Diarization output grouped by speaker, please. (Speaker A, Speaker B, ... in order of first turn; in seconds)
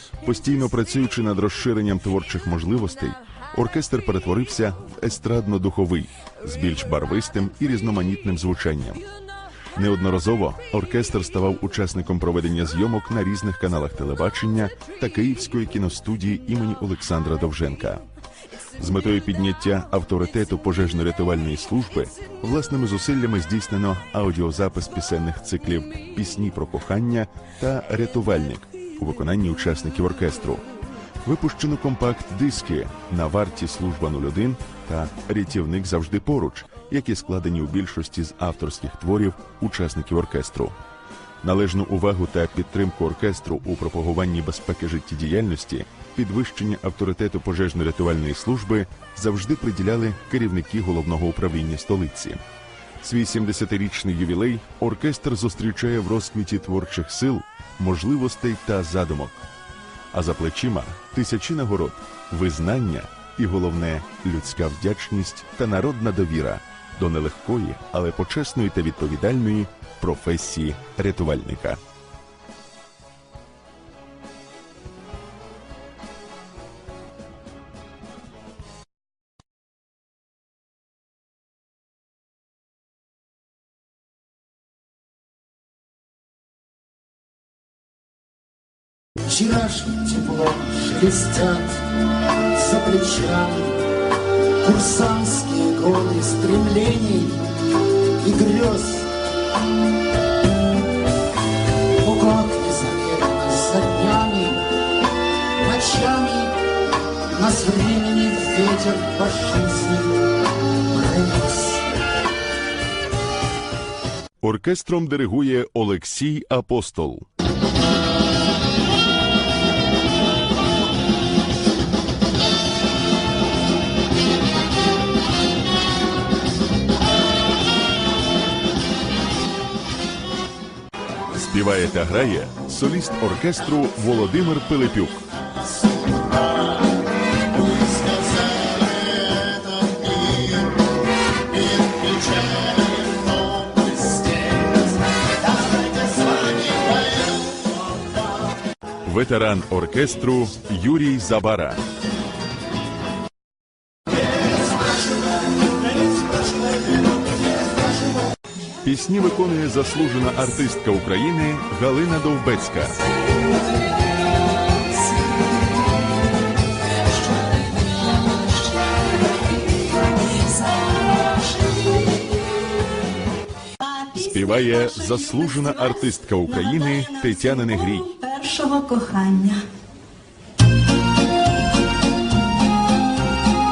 Speaker A: 0.2-9.0, 9.7-18.0, 18.8-30.6, 31.2-40.7, 41.4-52.4, 53.0-59.4, 60.1-71.8, 114.4-117.3, 131.3-135.2, 149.0-151.8, 158.8-163.0, 174.1-178.2
Speaker B: 89.2-91.8, 92.5-93.8, 94.6-97.5, 98.2-99.1, 102.0-104.7, 105.6-106.5, 107.3-110.3, 110.9-111.8, 138.8-139.9, 143.1-143.4
Speaker C: 164.7-165.5, 167.1-169.2, 170.2-172.7, 173.8-175.9, 176.6-179.7